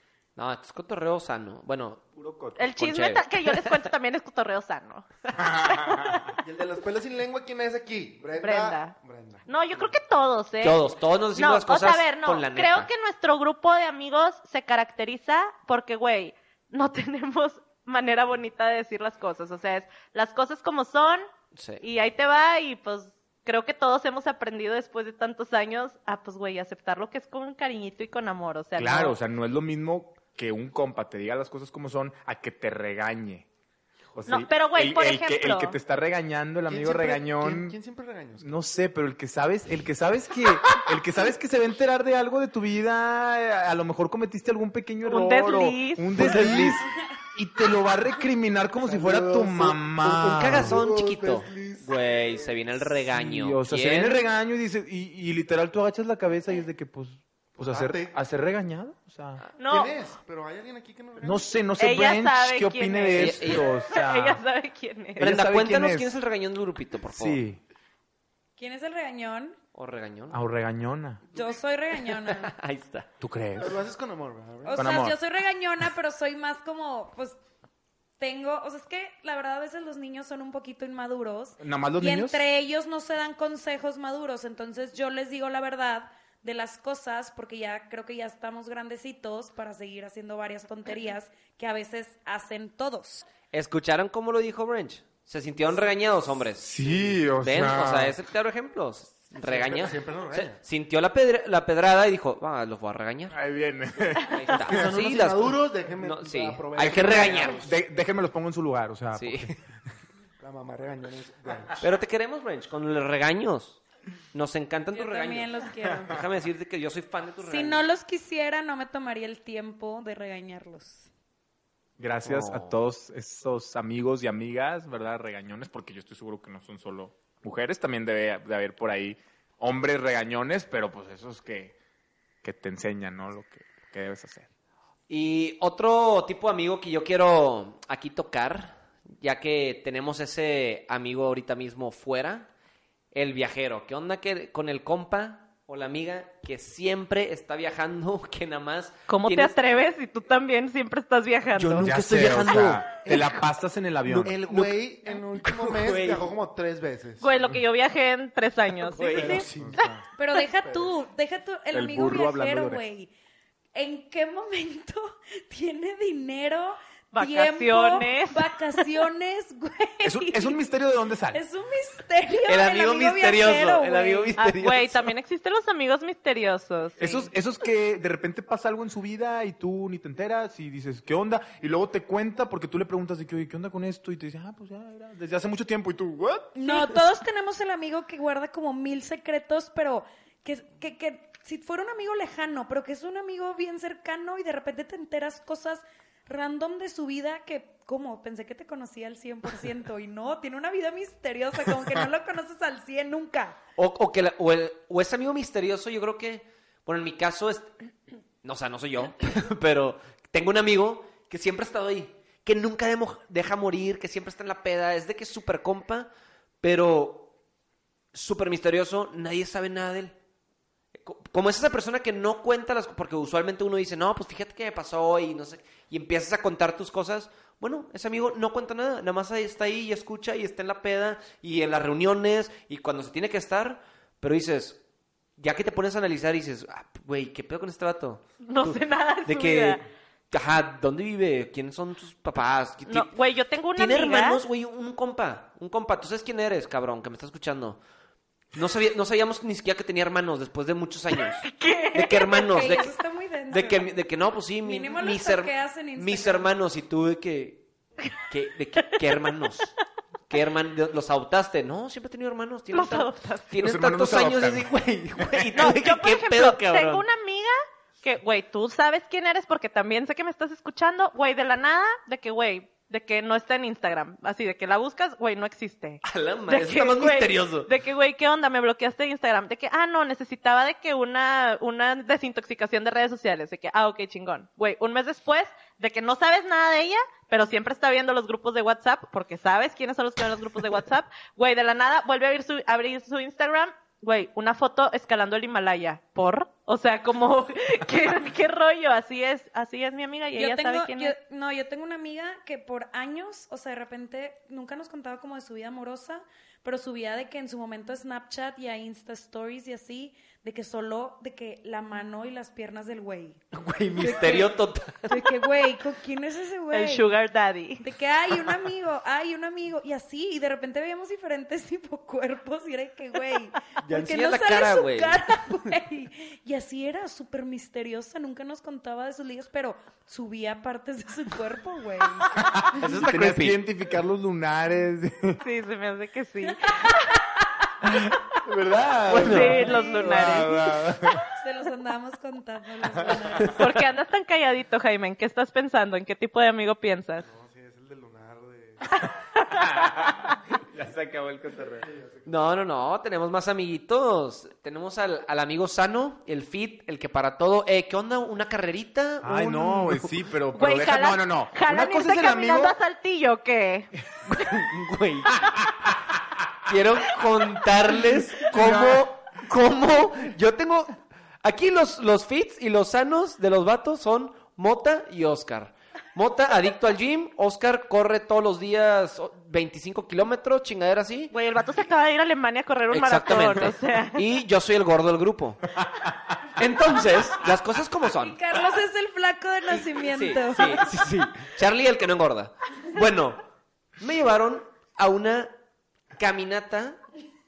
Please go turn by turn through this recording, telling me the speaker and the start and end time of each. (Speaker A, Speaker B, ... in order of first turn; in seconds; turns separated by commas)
Speaker A: 0.3-2.1, Speaker B: 2.1-2.6, Speaker C: 2.6-6.4, Speaker A: 2.7-3.9, Speaker B: 5.3-6.3, Speaker D: 6.4-10.0, Speaker C: 8.4-8.9, Speaker C: 9.5-21.2, Speaker A: 10.6-12.9, Speaker A: 21.5-21.8, Speaker C: 21.8-29.1, Speaker B: 28.8-33.5, Speaker B: 34.1-37.8, Speaker C: 34.3-35.8, Speaker D: 36.7-38.5, Speaker B: 38.4-50.8, Speaker C: 45.0-46.3, Speaker A: 46.1-46.8, Speaker D: 48.8-52.6, Speaker A: 50.2-54.2, Speaker B: 53.1-59.4, Speaker D: 57.6-58.1, Speaker C: 59.6-59.9, Speaker D: 59.6-61.5, Speaker B: 61.2-64.4, Speaker C: 61.8-65.3, Speaker A: 63.1-63.6, Speaker B: 65.2-66.1, Speaker A: 65.2-67.4, Speaker B: 67.1-67.6, Speaker E: 68.6-69.5, Speaker A: 69.7-70.4, Speaker B: 70.3-71.2, Speaker E: 71.3-72.5, Speaker A: 72.1-73.1, Speaker B: 73.2-73.8, Speaker D: 73.6-74.9, Speaker E: 74.6-77.4, Speaker B: 74.7-75.2, Speaker E: 78.2-93.3, Speaker B: 81.6-82.4, Speaker A: 93.5-96.8, Speaker B: 96.6-98.2, Speaker A: 97.3-103.4, Speaker D: 99.4-100.6, Speaker B: 103.3-104.9, Speaker A: 104.3-107.7, Speaker D: 104.6-107.8, Speaker B: 106.8-109.5, Speaker A: 109.1-109.6, Speaker D: 110.4-111.8, Speaker A: 111.8-113.8, Speaker A: 114.3-117.8, Speaker E: 114.9-116.2, Speaker E: 117.4-121.1, Speaker B: 122.0-131.7, Speaker A: 122.2-122.8, Speaker B: 132.4-134.5, Speaker A: 135.1-142.5, Speaker A: 143.1-149.5, Speaker C: 149.1-151.9, Speaker A: 151.5-152.9, Speaker B: 151.8-154.3, Speaker D: 153.0-153.4, Speaker D: 154.1-157.6, Speaker A: 154.4-154.8, Speaker A: 155.4-156.3, Speaker C: 157.2-159.9, Speaker D: 158.9-160.1, Speaker A: 158.9-159.5, Speaker E: 160.1-163.1, Speaker D: 160.6-160.9, Speaker B: 161.7-162.8, Speaker E: 163.7-170.6, Speaker C: 167.1-168.5, Speaker B: 170.0-171.4, Speaker E: 171.3-174.3, Speaker A: 172.5-175.1, Speaker C: 174.4-177.3, Speaker B: 177.0-186.6, Speaker E: 186.5-203.6, Speaker A: 203.8-207.7, Speaker A: 208.4-216.1, Speaker A: 216.6-217.3, Speaker A: 218.1-220.2, Speaker A: 220.9-234.8, Speaker A: 235.4-243.1, Speaker C: 238.4-239.8, Speaker C: 242.9-244.4, Speaker A: 243.7-247.8, Speaker A: 248.5-252.9, Speaker C: 251.1-252.5, Speaker E: 252.4-253.9, Speaker A: 253.5-257.6, Speaker E: 254.6-256.5, Speaker A: 258.3-259.7, Speaker A: 260.3-267.0, Speaker C: 262.7-263.4, Speaker B: 263.6-265.4, Speaker C: 265.5-301.1, Speaker A: 276.0-277.7, Speaker E: 300.3-313.4, Speaker A: 313.5-315.5, Speaker E: 314.0-314.6, Speaker E: 315.1-317.1, Speaker C: 316.7-317.8, Speaker E: 317.8-332.4, Speaker A: 323.8-325.5, Speaker B: 332.3-335.4, Speaker A: 332.7-333.6, Speaker C: 335.4-337.1, Speaker B: 337.8-341.2, Speaker A: 339.1-340.0, Speaker C: 339.1-340.7, Speaker E: 339.6-340.5, Speaker E: 341.3-343.5, Speaker B: 342.9-343.4, Speaker A: 343.4-343.8, Speaker C: 343.6-347.2, Speaker D: 347.2-349.1, Speaker C: 349.4-349.7, Speaker B: 349.6-351.9, Speaker D: 351.8-352.5, Speaker A: 352.2-360.1, Speaker B: 359.2-362.7, Speaker C: 360.5-363.9, Speaker A: 364.3-365.5, Speaker B: 365.5-366.2, Speaker A: 366.7-381.3, Speaker B: 368.4-369.1, Speaker C: 381.3-384.2, Speaker A: 382.9-385.7, Speaker B: 386.1-386.3, Speaker A: 386.6-388.4, Speaker E: 388.2-390.9, Speaker A: 389.7-393.4, Speaker A: 394.0-395.5, Speaker A: 396.2-397.0